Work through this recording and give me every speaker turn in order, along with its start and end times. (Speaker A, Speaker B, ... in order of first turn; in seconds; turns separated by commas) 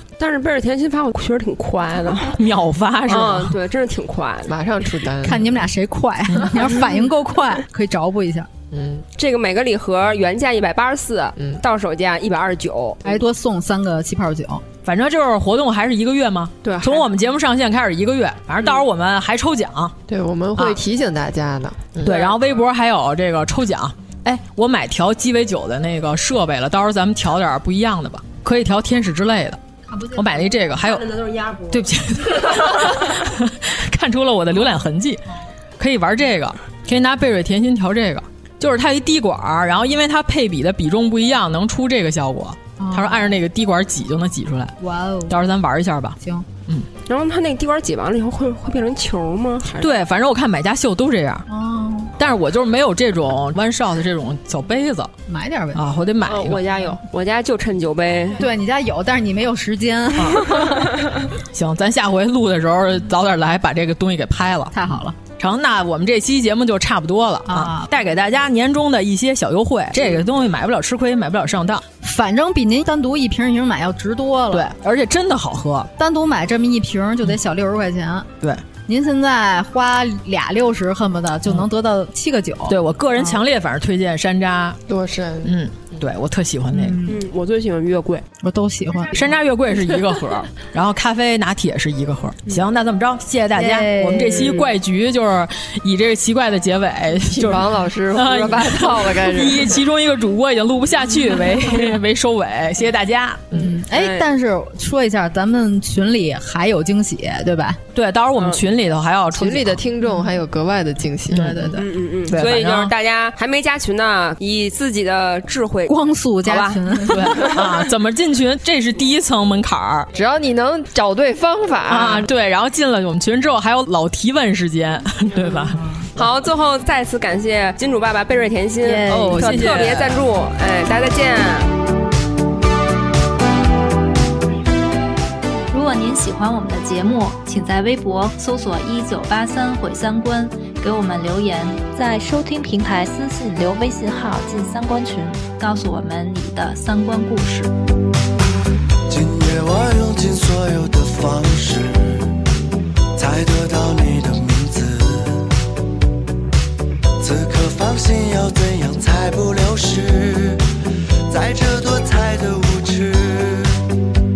Speaker A: 0.2-2.4, Speaker B: 2.3-3.6, Speaker A: 3.1-4.5, Speaker C: 4.5-5.6, Speaker D: 5.2-8.5, Speaker C: 8.7-9.0, Speaker A: 9.2-13.1, Speaker D: 13.1-14.6, Speaker B: 14.8-20.0, Speaker A: 16.7-17.1, Speaker C: 20.1-22.2, Speaker B: 22.0-29.6, Speaker A: 22.1-22.4, Speaker B: 30.1-35.2, Speaker A: 30.7-31.9, Speaker B: 35.8-44.8, Speaker D: 42.8-43.4, Speaker D: 44.8-45.4, Speaker B: 45.3-46.9, Speaker D: 46.2-46.5, Speaker A: 47.1-50.0, Speaker B: 49.8-51.5, Speaker D: 51.5-52.1, Speaker B: 52.2-55.1, Speaker D: 55.3-55.8, Speaker B: 55.7-56.6, Speaker A: 56.2-58.4, Speaker D: 58.4-60.9, Speaker B: 60.2-60.4, Speaker B: 61.5-71.8, Speaker D: 64.7-65.2, Speaker D: 67.5-67.9, Speaker D: 72.0-74.7, Speaker B: 74.5-75.9, Speaker D: 76.0-78.3, Speaker D: 78.9-83.4, Speaker B: 82.7-84.8, Speaker C: 84.9-85.6, Speaker B: 85.4-87.0, Speaker D: 86.7-87.2, Speaker A: 87.0-88.2, Speaker D: 88.4-89.3, Speaker B: 89.1-103.5, Speaker D: 93.5-94.6, Speaker C: 97.3-99.7, Speaker D: 103.6-107.8, Speaker A: 103.9-104.3, Speaker B: 107.9-109.8, Speaker A: 108.4-108.6, Speaker C: 109.3-111.8, Speaker D: 110.1-110.3, Speaker B: 111.3-111.7, Speaker D: 111.3-111.8, Speaker A: 111.8-117.8, Speaker B: 112.3-112.9, Speaker D: 115.9-117.5, Speaker B: 117.1-120.1, Speaker C: 120.1-122.3, Speaker B: 121.9-126.3, Speaker A: 126.2-131.7, Speaker D: 128.8-129.7, Speaker B: 129.0-130.3, Speaker E: 135.7-147.7, Speaker F: 149.1-152.4, Speaker F: 153.2-155.5, Speaker F: 157.2-160.7, Speaker F: 161.3-163.8